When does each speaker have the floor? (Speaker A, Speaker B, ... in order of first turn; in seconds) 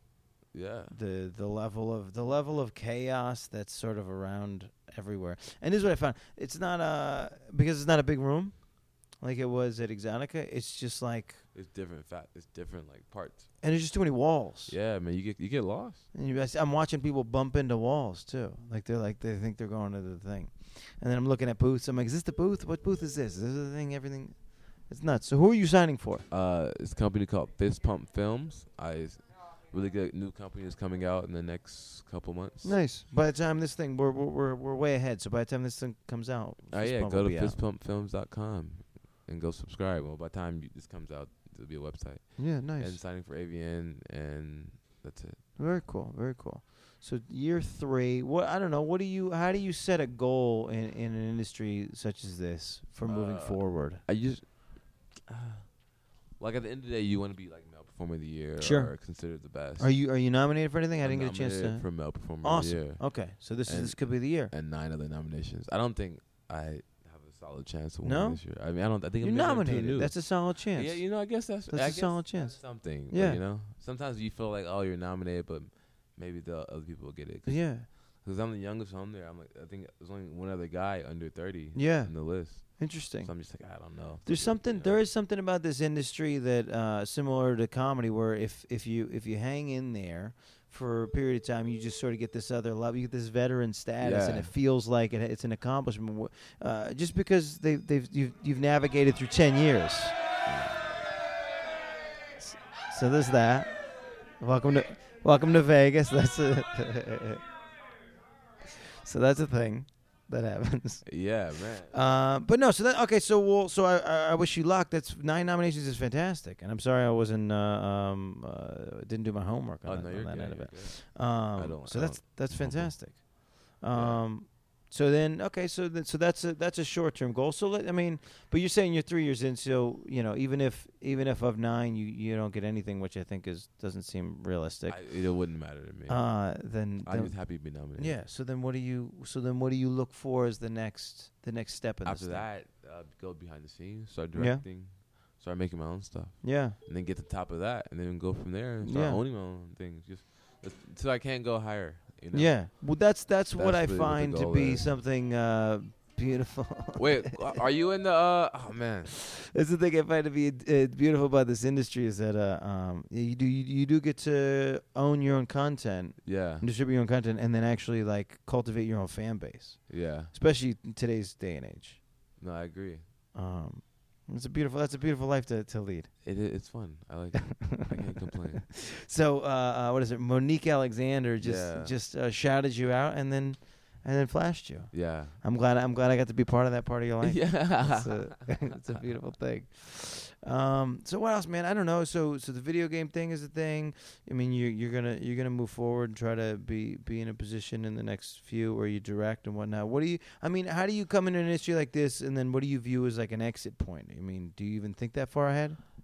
Speaker A: 0.5-1.0, 11.5-13.5, 14.7-16.1, 26.3-32.8, 36.7-45.4, 53.0-55.8, 56.4-59.9, 61.0-85.0, 94.0-94.5, 100.5-101.1, 111.0-112.0, 119.8-123.2, 123.9-124.2, 134.9-136.4, 137.0-138.2, 142.0-152.6, 153.6-154.9, 156.9-159.2, 166.2-166.7, 169.9-170.3, 172.4-173.1, 176.2-178.6, 181.4-181.9, 184.9-185.4, 187.2-188.6
Speaker B: 0.9-11.4, 13.6-14.8, 16.1-26.2, 32.6-37.6, 42.4-43.0, 45.6-54.0, 58.6-59.2, 59.8-64.5, 68.0-68.5, 69.2-73.4, 77.5-77.9, 81.7-100.2, 102.4-103.9, 104.4-107.4, 109.0-135.1, 136.1-142.5, 144.3-144.6, 146.4-146.8, 148.8-149.2, 152.3-157.6, 159.1-172.0, 173.3-176.2, 177.6-205.8